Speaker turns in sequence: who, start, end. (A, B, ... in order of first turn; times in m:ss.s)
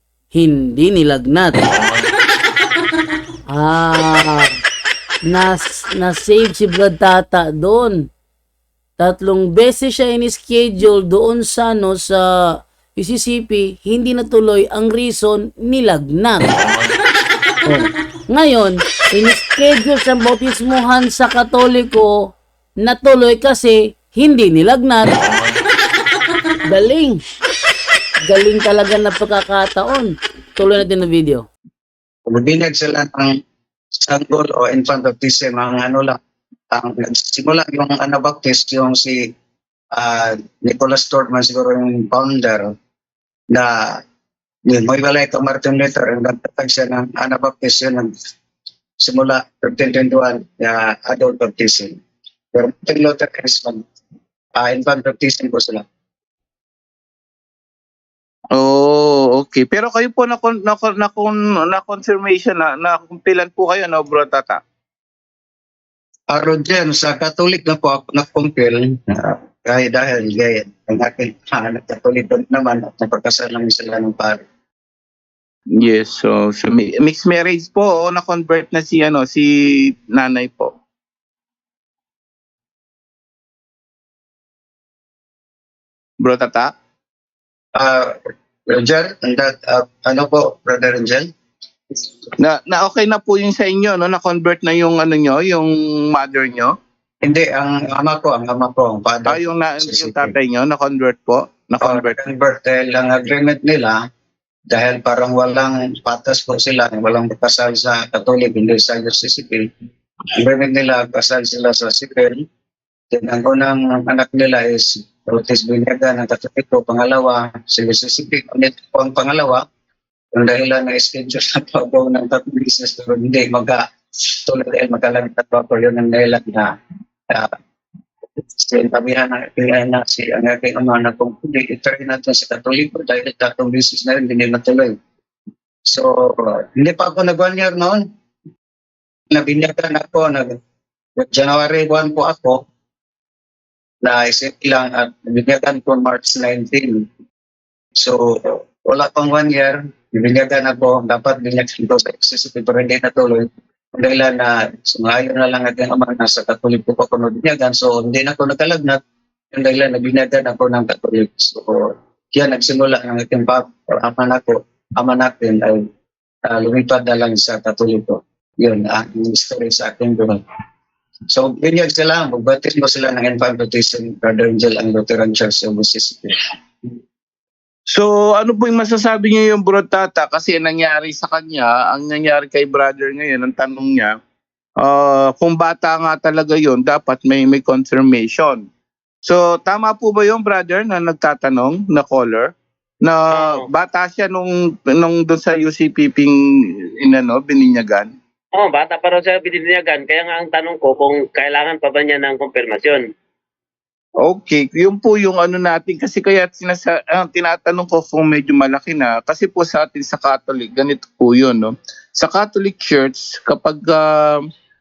0:00.3-0:01.6 A
0:03.5-0:04.5 A
0:05.2-0:08.1 A
0:09.0-0:16.5 A
0:17.6-0:22.3 A
0:22.8-0:25.2 A
0:26.7-0:27.2 A
0:28.3-0:31.5 A
0:32.3-0:33.3 B
0:34.0-0:36.2 B
0:36.7-0:39.2 B
0:40.0-0:42.7 B
0:43.5-0:44.0 B
0:44.7-0:48.1 B
0:49.0-0:52.0 B
0:52.5-0:53.8 B
0:54.6-0:55.8 B
0:58.5-1:04.6 C
1:06.3-1:14.4 B
1:15.7-1:20.7 C
1:26.2-1:26.7 C
1:27.8-1:28.2 B
1:28.7-1:31.3 B
1:32.4-1:36.7 C
1:37.2-1:40.3 B
1:39.3-1:42.2 C
1:41.8-1:44.0 B
1:44.7-1:49.7 B
1:50.4-1:52.4 B
1:53.1-1:59.6 B
2:00.3-2:06.7 B
2:08.6-2:14.9 B
2:15.9-2:18.0 B
2:19.3-2:20.6 B
2:21.2-2:22.6 B
2:24.0-2:27.0 B
2:28.0-2:39.0 B
2:39.5-2:45.8 B
2:46.5-2:50.4 B
2:51.3-2:56.3 B
2:57.9-3:04.2 C
3:04.8-3:08.6 C
3:09.2-3:12.5 C
3:13.0-3:16.4 C
3:13.3-3:13.6 D
3:17.0-3:18.1 C
3:18.5-3:23.0 D
3:24.2-3:34.4 C